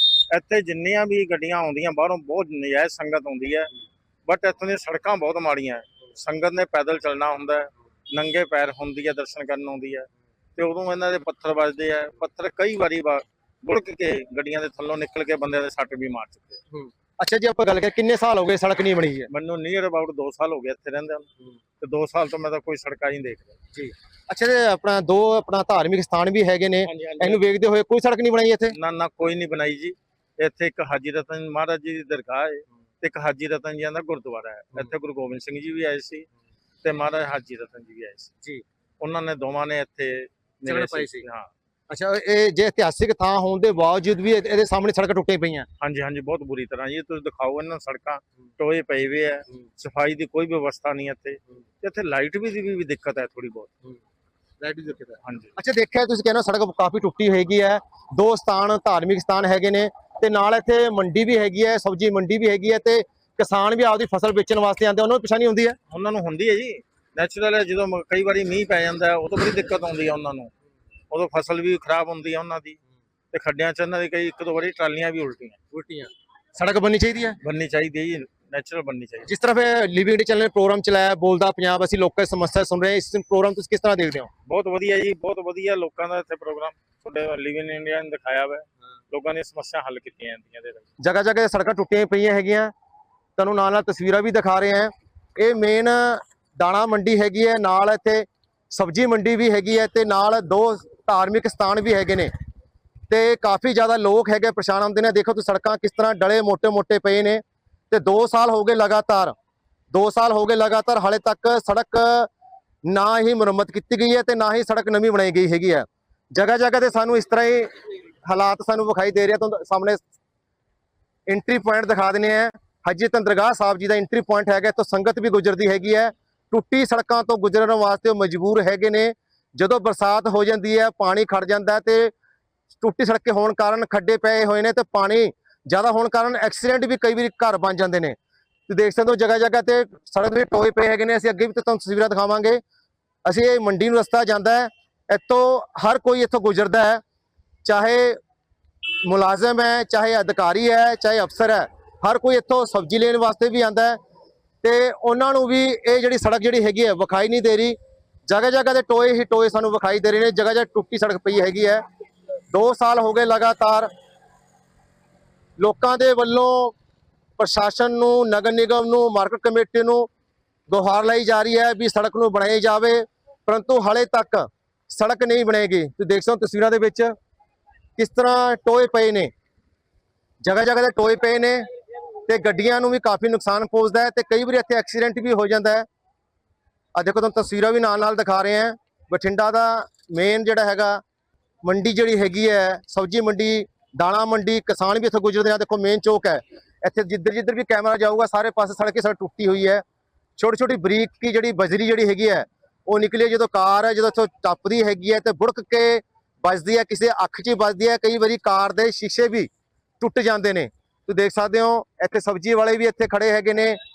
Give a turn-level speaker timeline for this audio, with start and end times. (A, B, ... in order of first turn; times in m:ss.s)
0:00.3-0:03.7 A
0:04.2-0:16.6 A
0:16.7-0:19.3 B
0:19.3-0:21.3 A
0:21.8-0:23.6 A
0:23.7-0:28.7 B
0:26.8-0:27.4 A
0:28.7-0:36.3 A
0:36.8-0:38.3 A
0:39.0-0:41.5 A
0:40.6-0:41.2 B
0:41.9-0:45.7 B
0:45.8-0:53.7 A
0:54.6-1:05.8 B
0:55.2-0:55.5 A
1:05.9-1:10.5 A
1:11.1-1:12.8 A
1:13.3-1:15.6 A
1:15.7-1:17.4 B
1:17.4-1:19.3 A
1:19.3-1:24.3 B
1:24.4-1:30.9 A
1:31.0-1:32.7 B
1:33.4-1:42.3 B
1:43.1-1:49.3 B
1:49.9-1:52.3 B
1:52.8-1:57.7 B
1:58.2-2:00.0 B
2:01.3-2:12.1 B
2:12.8-2:18.2 B
2:18.7-2:22.6 B
2:23.2-2:27.0 B
2:27.6-2:28.2 B
2:29.0-2:34.0 B
2:34.6-2:41.8 B
2:42.5-2:43.9 B
2:45.6-2:46.7 B
2:47.4-2:50.1 B
2:50.7-2:57.1 B
2:58.0-2:59.3 B
3:00.4-3:01.6 B
3:02.3-3:05.8 B
3:06.9-3:11.0 B
3:11.6-3:19.8 B
3:20.4-3:29.5 B
3:30.0-3:33.8 B